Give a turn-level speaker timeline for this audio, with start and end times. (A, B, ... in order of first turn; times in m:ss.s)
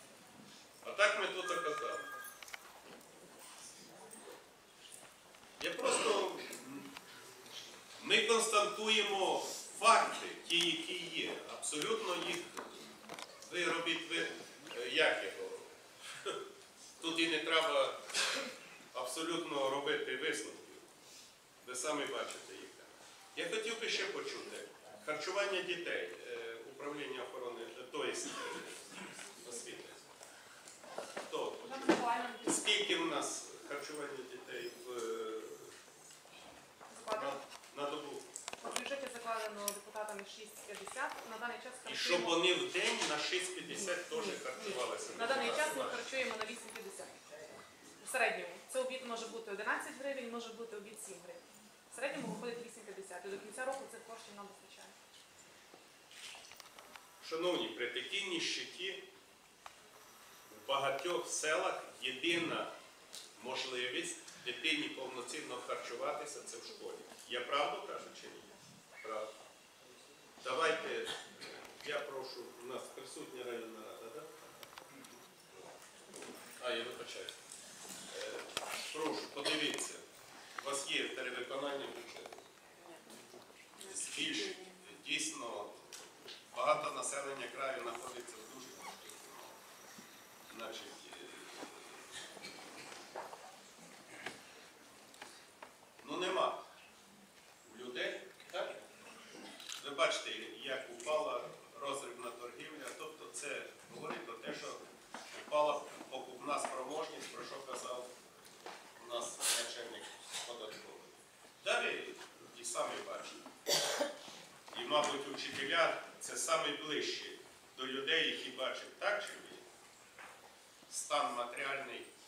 0:00.8-0:02.1 A
0:05.6-0:06.9 A
0:08.0-0:12.7 A
0:13.4-0:16.4 A
0:17.0-0:18.0 A
0:18.9-0:20.8 A
0:21.6-0:30.0 A
0:31.2-0:35.7 A
0:31.6-0:32.8 B
0:36.9-0:37.4 B
0:37.1-0:38.2 A
0:38.6-0:42.4 B
0:41.8-0:46.0 A
0:43.9-0:47.2 B
0:48.0-0:54.9 B
0:57.2-0:59.1 A
1:00.5-1:02.7 A
1:03.4-1:09.3 A
1:10.4-1:14.3 A
1:16.6-1:17.3 A
1:18.1-1:20.0 A
1:20.6-1:22.5 A
1:23.8-1:29.6 A
1:30.5-1:32.0 A
1:36.0-1:36.6 A
1:37.6-1:38.8 A
1:39.8-1:48.1 A
1:49.0-1:53.4 A
1:54.7-1:59.6 A
2:00.9-2:02.1 A